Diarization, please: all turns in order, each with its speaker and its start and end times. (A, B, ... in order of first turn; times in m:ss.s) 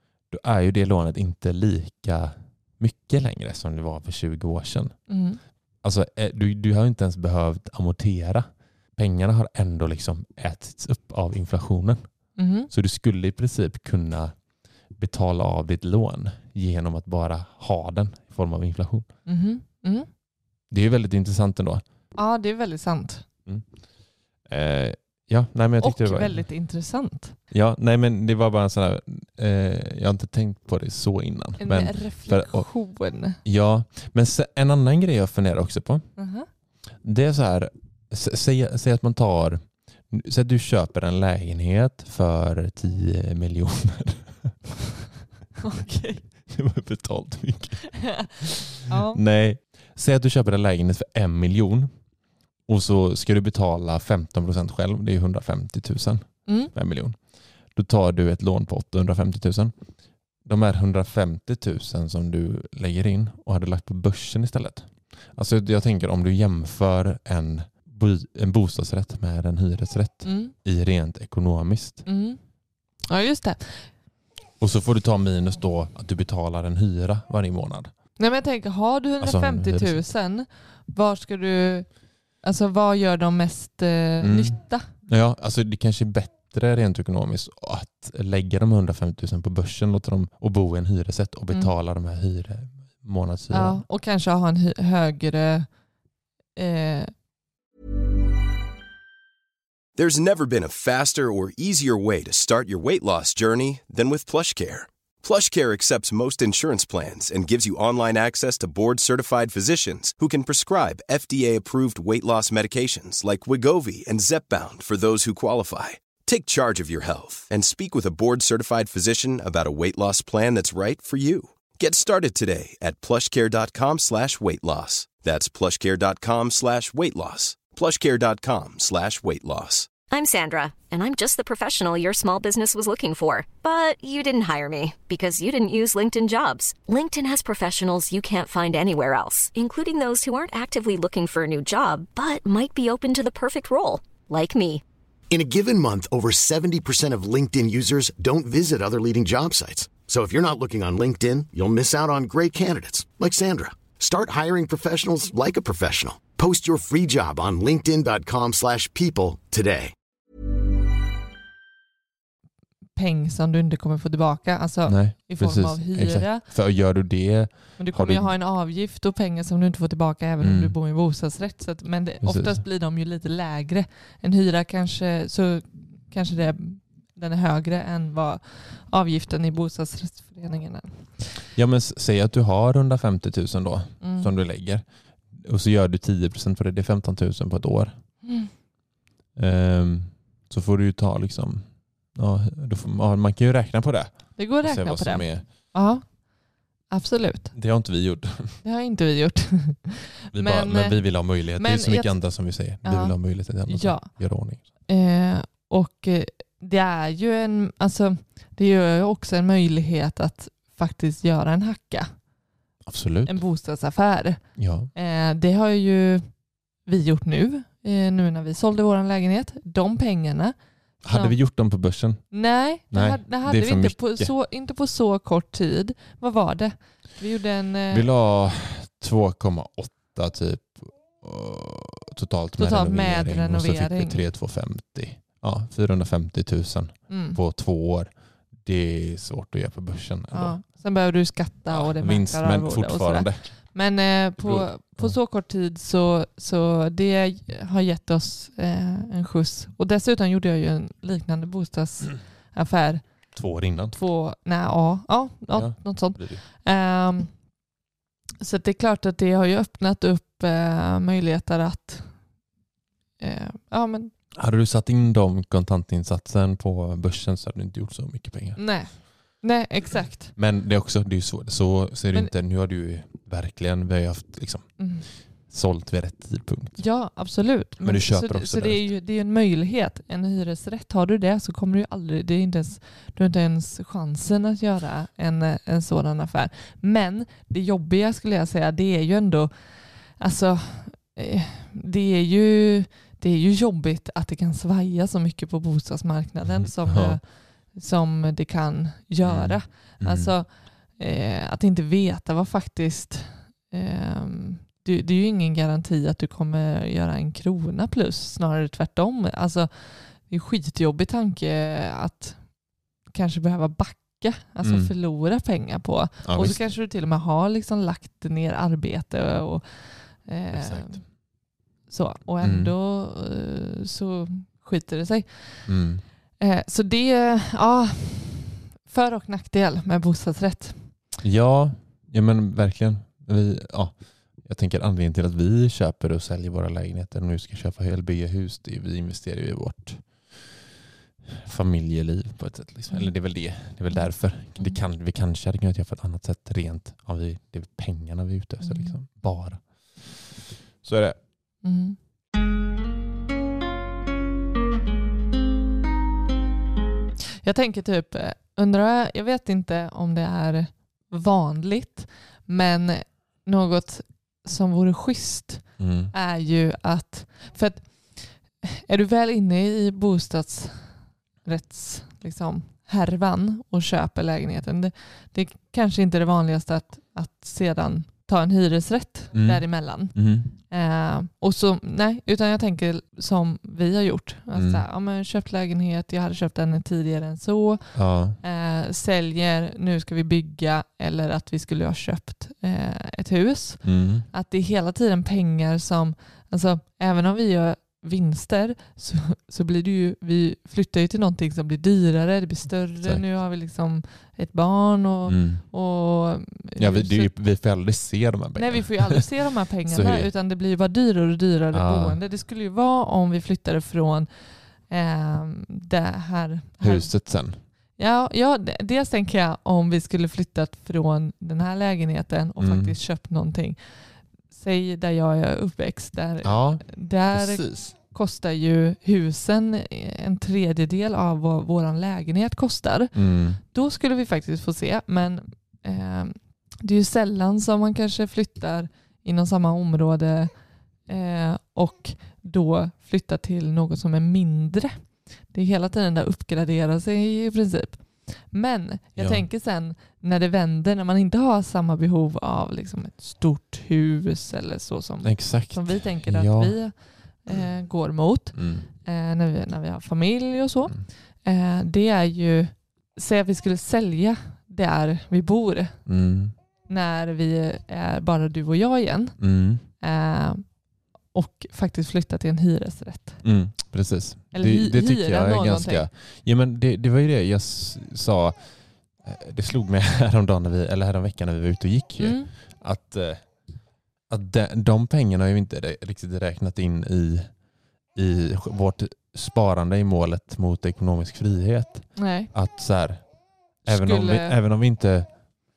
0:00.3-0:05.0 A
0:05.1-0:05.4 B
0:05.8-0:12.0 A
0:12.4-0:12.7 B
0:12.7-0:14.3 A
0:15.0-0:19.1 A
0:19.3-0:20.1 B
0:20.7-0:21.8 A
0:22.2-0:23.2 B
0:24.5-0:26.4 A
0:25.8-0:27.4 B
0:27.5-0:32.7 A
0:31.6-0:33.4 B
0:33.4-0:36.1 A
0:36.2-0:36.5 B
0:37.0-0:44.6 A
0:45.6-0:46.2 B
0:46.5-0:47.9 A
0:48.0-0:48.3 B
0:48.4-0:51.9 A
0:48.8-0:49.2 B
0:52.7-0:57.2 A
0:56.5-0:56.7 B
0:57.7-0:59.7 A
1:00.4-1:12.0 A
1:10.2-1:10.5 B
1:12.1-1:12.4 B
1:13.1-1:13.9 B
1:14.6-1:17.9 A
1:18.2-1:21.9 B
1:19.2-1:20.0 A
1:22.4-1:24.9 B
1:24.2-1:33.8 A
1:33.5-1:35.7 B
1:36.6-1:37.1 B
1:40.0-2:09.9 C
2:10.1-2:24.8 D
2:25.3-2:39.9 E
2:43.0-2:46.4 B
2:44.9-2:48.3 A
2:47.8-3:01.1 B
2:50.4-2:50.8 A
2:52.2-2:52.6 A
3:01.6-3:08.0 A
3:04.0-3:04.3 B
3:08.2-3:08.5 B
3:09.4-3:15.4 A
3:14.4-3:16.0 B
3:16.9-3:17.5 B
3:17.5-3:18.6 A
3:18.6-3:21.0 B
3:20.3-3:24.6 A
3:21.6-3:22.2 B
3:22.8-3:24.1 B
3:24.9-3:32.1 B
3:32.9-3:33.4 A
3:33.3-3:34.4 B
3:34.6-3:34.9 A
3:35.0-3:36.2 B
3:36.8-3:40.6 B
3:41.0-3:42.2 A
3:41.1-3:41.4 B
3:42.3-3:48.1 B
3:42.9-3:44.3 A
3:47.9-4:00.6 A
3:52.6-3:54.2 B
3:57.1-3:57.4 B
4:00.3-4:13.0 B
4:01.7-4:03.5 A
4:04.4-4:05.2 A
4:13.3-4:14.0 A
4:13.9-4:17.3 B
4:15.5-4:16.4 A
4:18.4-4:22.1 B
4:23.2-4:24.1 B
4:24.4-4:28.6 A
4:28.6-4:30.3 B
4:30.4-4:34.7 A
4:34.8-4:35.1 B
4:35.5-4:36.8 A
4:36.8-4:49.5 B
4:37.8-4:38.9 A
4:50.2-4:57.2 B
4:56.4-4:57.2 A
4:57.7-5:12.4 B
4:59.2-5:00.3 A
5:13.1-5:19.6 B
5:14.6-5:14.9 A
5:16.2-5:16.6 A
5:20.2-5:21.0 B
5:20.5-5:21.0 A
5:21.9-5:25.7 B
5:22.4-5:22.7 A
5:25.7-5:26.0 A
5:26.4-5:30.8 B
5:31.2-5:40.1 A
5:41.3-5:50.3 A
5:43.9-5:44.8 B
5:48.6-5:49.0 B
5:50.8-5:51.2 A
5:51.6-5:52.0 B
5:57.4-6:07.8 B
6:05.8-6:06.1 A
6:08.6-6:10.9 B
6:11.4-6:27.8 B
6:19.3-6:20.5 A
6:24.6-6:24.8 A
6:28.0-6:28.4 A
6:28.4-6:47.3 B
6:33.8-6:34.3 A
6:45.3-6:45.6 A
6:46.8-6:49.3 A
6:48.6-6:54.3 B
6:49.9-6:50.3 A
6:51.7-6:52.2 A
6:54.9-6:57.1 B
6:56.8-6:57.6 A
6:58.0-7:03.8 B
7:02.6-7:03.0 A
7:04.5-7:13.2 B
7:06.4-7:07.9 A
7:13.1-7:13.6 A
7:13.7-7:20.5 B
7:21.1-7:25.0 B
7:25.5-7:46.0 B
7:29.2-7:29.5 A
7:35.2-7:36.8 A
7:38.5-7:38.9 A
7:46.1-7:46.5 A
7:46.9-7:49.4 B
7:49.4-7:49.8 A
7:50.0-7:50.7 B
7:51.3-7:53.4 B
7:53.4-7:58.6 A
7:54.5-7:56.1 B
7:59.2-8:03.4 A
8:02.2-8:02.5 B
8:04.3-8:07.5 A
8:08.2-8:13.2 A
8:12.2-8:12.5 B
8:13.8-8:15.3 A
8:13.9-8:14.6 B